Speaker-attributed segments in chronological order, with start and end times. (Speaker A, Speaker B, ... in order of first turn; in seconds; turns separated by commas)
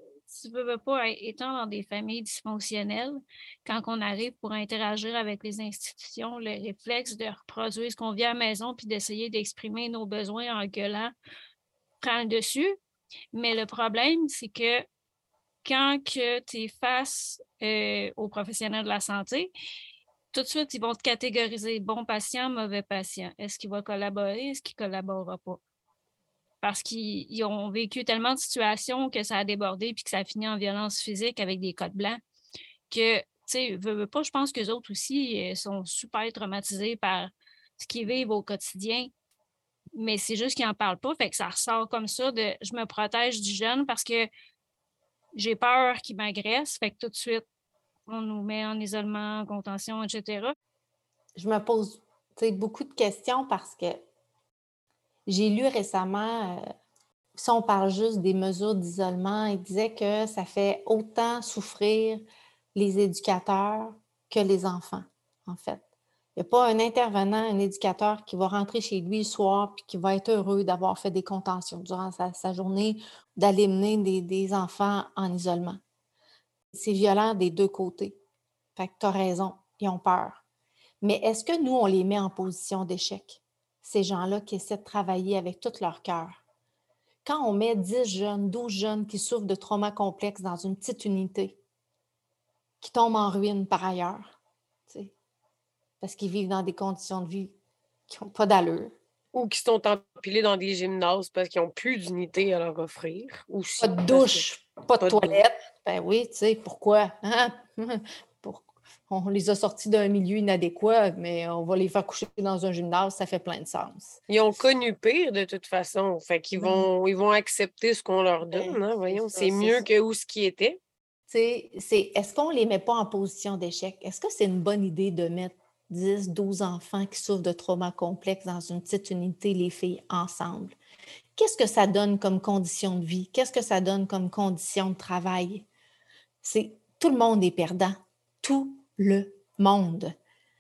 Speaker A: 0.3-11.1, Speaker A: 12.0-12.8, Speaker A: 13.3-14.8, Speaker A: 15.6-19.5, Speaker A: 20.3-25.6, Speaker A: 26.6-32.2, Speaker A: 32.9-39.1, Speaker A: 40.0-44.3, Speaker A: 45.4-47.4, Speaker A: 48.1-50.5, Speaker B: 51.3-54.0, Speaker B: 55.3-56.6, Speaker B: 57.3-65.8, Speaker B: 66.3-75.8, Speaker B: 76.7-78.2, Speaker B: 78.8-80.4, Speaker B: 81.0-86.4, Speaker B: 87.2-91.6, Speaker B: 92.8-95.1, Speaker B: 96.0-97.5, Speaker B: 98.1-98.9, Speaker C: 99.3-104.4, Speaker B: 103.8-114.2, Speaker C: 105.0-105.4, Speaker C: 114.3-120.8, Speaker B: 116.6-116.9, Speaker B: 118.5-119.8, Speaker B: 121.3-130.8, Speaker B: 131.3-135.7, Speaker B: 136.4-140.1